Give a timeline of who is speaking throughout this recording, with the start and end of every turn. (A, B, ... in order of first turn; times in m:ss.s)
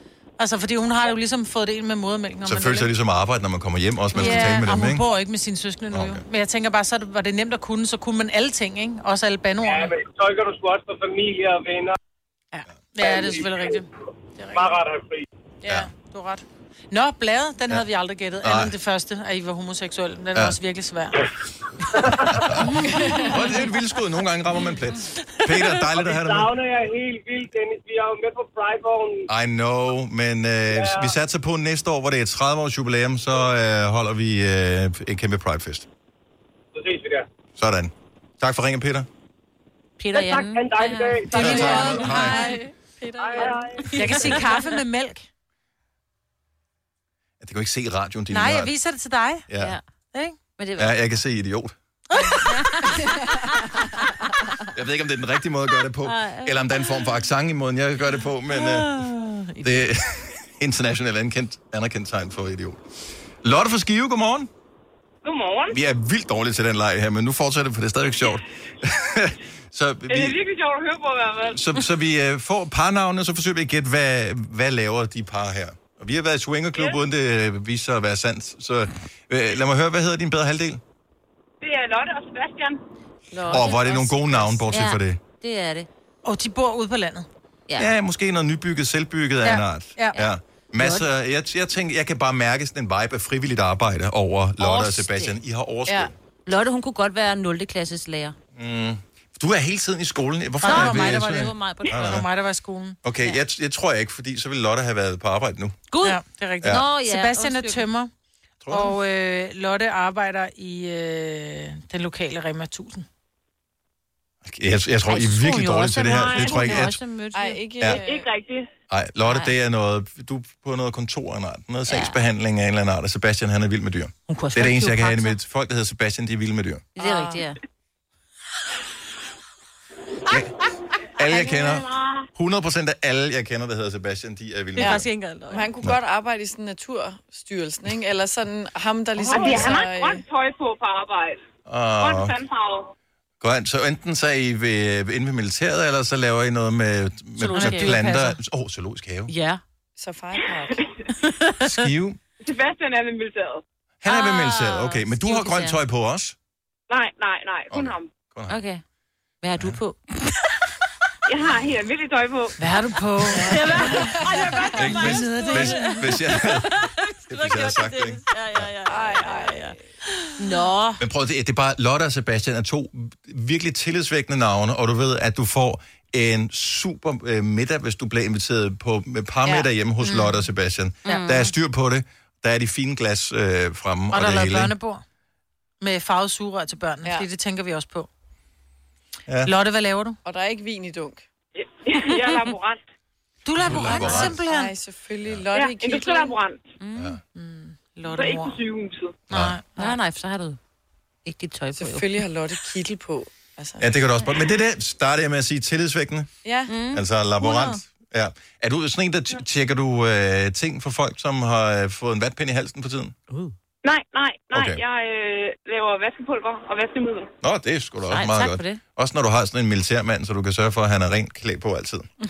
0:00.4-0:02.9 A
0:02.4-0:05.0 B
0:04.1-0:09.9 A
0:05.9-0:06.2 B
0:09.6-0:11.9 C
0:12.5-0:14.8 A
0:13.0-0:13.8 C
0:14.5-0:15.2 C
0:15.6-0:21.3 A
0:18.4-0:18.7 B
0:22.0-0:26.5 B
0:22.0-0:22.4 C
0:22.8-0:23.3 D
0:25.9-0:29.3 C
0:29.3-0:35.9 B
0:30.7-0:31.1 C
0:36.7-0:37.3 C
0:37.6-0:39.1 B
0:40.0-0:42.5 E
0:40.1-0:42.0 C
0:41.3-0:44.6 D
0:41.3-0:42.5 B
0:43.2-0:43.9 C
0:43.9-0:45.2 A
0:47.4-0:48.7 B
0:48.3-0:49.5 A
0:49.5-0:49.8 B
0:49.5-0:49.8 E
0:50.6-0:51.0 E
0:50.8-0:51.7 B
0:52.3-0:53.0 E
0:54.7-0:59.0 B
0:56.0-0:57.1 E
0:59.6-0:59.8 E
0:59.6-1:02.8 B
1:03.4-1:04.5 B
1:05.2-1:05.7 F
1:05.7-1:10.4 B
1:10.1-1:11.6 F
1:11.5-1:20.8 B
1:21.6-1:22.8 F
1:23.3-1:23.9 D
1:23.5-1:25.2 B
1:23.5-1:25.9 E
1:26.2-1:27.3 A
1:27.7-1:27.9 E
1:27.8-1:36.1 B
1:29.4-1:30.2 A
1:30.1-1:31.1 E
1:34.6-1:35.4 E
1:35.9-1:36.1 D
1:36.4-1:38.3 E
1:38.5-1:42.3 B
1:40.6-1:43.0 A
1:40.6-1:42.2 E
1:43.0-1:45.9 B
1:45.9-1:47.9 E
1:46.0-1:48.1 A
1:48.6-1:49.0 B
1:48.7-1:53.0 A
1:54.4-1:57.0 B
1:55.0-1:57.7 E
1:56.4-1:58.3 D
1:57.9-1:58.7 F
1:58.9-2:06.8 B
1:59.2-1:59.5 E
2:01.8-2:02.2 E
2:04.3-2:05.4 E
2:07.0-2:07.6 E
2:07.0-2:07.5 D
2:11.2-2:15.0 B
2:11.5-2:11.7 E
2:14.8-2:15.7 E
2:14.8-2:20.2 D
2:19.3-2:19.5 E
2:19.3-2:21.4 F
2:21.6-2:22.3 B
2:22.0-2:22.9 F
2:23.4-2:29.3 B
2:27.4-2:28.4 A
2:27.5-2:28.0 E
2:29.3-2:29.6 E
2:30.0-2:30.8 D
2:31.6-2:32.2 B
2:32.4-2:33.6 F
2:34.0-2:36.4 B
2:34.0-2:35.8 E
2:36.9-2:38.1 F
2:37.7-2:38.6 B
2:38.5-2:38.8 E
2:39.4-2:40.0 E
2:41.3-2:42.6 F
2:42.6-2:44.4 A
2:43.3-2:49.8 E
2:43.5-2:44.4 D
2:44.8-2:46.7 B
2:44.9-2:46.0 A
2:47.3-2:48.7 B
2:48.9-2:49.8 D
2:50.4-2:51.0 E
2:51.0-3:04.7 B
3:00.0-3:00.4 A
3:01.0-3:01.5 E
3:04.1-3:05.0 A
3:05.8-3:08.1 A
3:09.4-3:10.2 A
3:10.2-3:11.2 D
3:11.6-3:12.8 F
3:12.2-3:12.5 E
3:13.4-3:14.7 A
3:13.6-3:14.4 B
3:13.8-3:16.3 D
3:15.5-3:16.6 F
3:16.8-3:17.2 E
3:17.3-3:18.6 A
3:18.1-3:19.2 F
3:19.3-3:19.6 B
3:19.3-3:20.0 A
3:19.8-3:20.6 E
3:21.2-3:22.2 E
3:21.7-3:23.9 D
3:23.8-3:26.3 B
3:26.4-3:26.7 D
3:26.7-3:27.8 E
3:26.9-3:33.1 B
3:33.8-3:37.3 F
3:34.5-3:34.8 B
3:37.4-3:42.1 B
3:38.1-3:38.8 E